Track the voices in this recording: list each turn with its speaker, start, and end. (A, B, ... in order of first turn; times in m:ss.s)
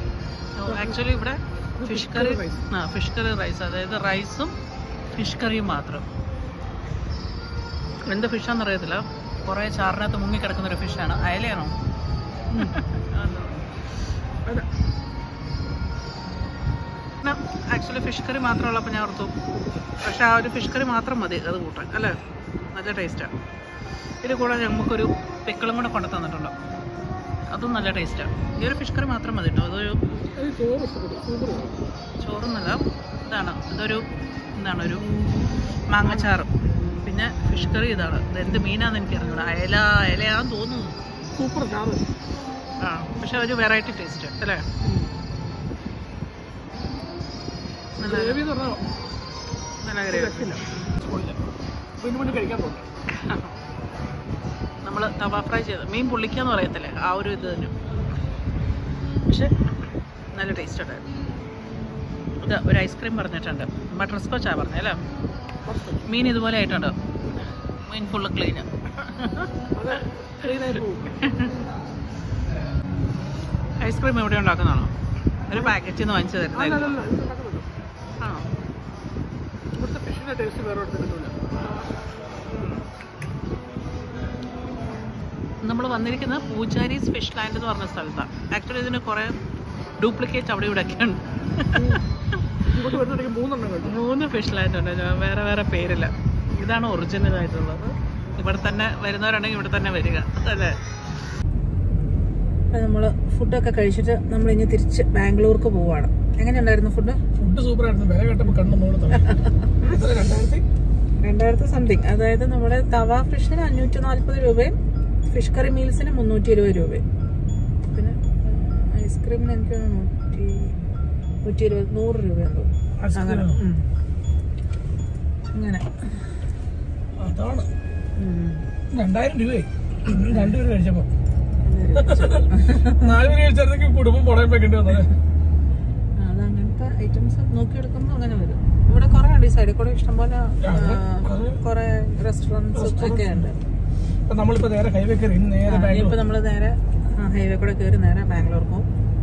0:00.6-0:04.5 A
0:00.6-0:01.1 B
0:01.8-0:02.7 B
0:05.2-0:06.0 A
0:08.0-0:11.7 A
0:12.5-0:13.6 A
0:17.2-0:19.3 A
0:20.0-0:22.1 A
0:22.7-0:23.3 A
0:24.2-0:26.5 A
0:27.5-0:30.0 A
0:30.3-0:31.8 B
0:32.2-0:34.0 A
0:34.5-0:35.0 A
0:35.9-0:36.5 A
0:36.0-0:36.3 B
0:37.0-0:41.0 A
0:41.4-0:42.0 B
0:42.8-0:44.6 A
0:48.0-0:48.8 B
0:48.0-0:48.4 A
0:49.8-0:50.7 A
0:50.0-0:51.4 B
0:52.0-0:52.9 B
0:53.2-0:53.5 A
0:54.8-0:57.7 A
1:00.3-1:01.0 A
1:02.4-1:05.0 A
1:05.6-1:06.3 B
1:06.0-1:07.0 A
1:07.9-1:09.5 A
1:09.7-1:11.2 B
1:11.2-1:11.6 A
1:13.8-1:14.9 A
1:15.5-1:17.0 A
1:15.5-1:15.8 B
1:16.5-1:17.7 B
1:18.2-1:18.5 A
1:19.8-1:21.9 B
1:22.5-1:22.8 A
1:25.6-1:29.3 A
1:30.0-1:32.0 A
1:31.7-1:32.0 B
1:32.7-1:34.0 B
1:33.8-1:40.7 A
1:42.7-1:47.2 A
1:47.3-1:50.6 B
1:49.2-1:49.9 A
1:51.2-1:54.8 A
1:55.3-1:57.0 A
1:57.9-2:00.8 A
2:01.4-2:03.8 A
2:03.0-2:03.6 B
2:05.5-2:06.0 A
2:07.2-2:07.7 B
2:08.2-2:08.6 A
2:08.9-2:11.1 B
2:10.3-2:10.6 A
2:11.6-2:13.0 A
2:12.0-2:15.1 B
2:16.2-2:23.6 A
2:20.6-2:21.6 B
2:22.7-2:23.6 B
2:24.3-2:26.2 B
2:25.7-2:28.9 A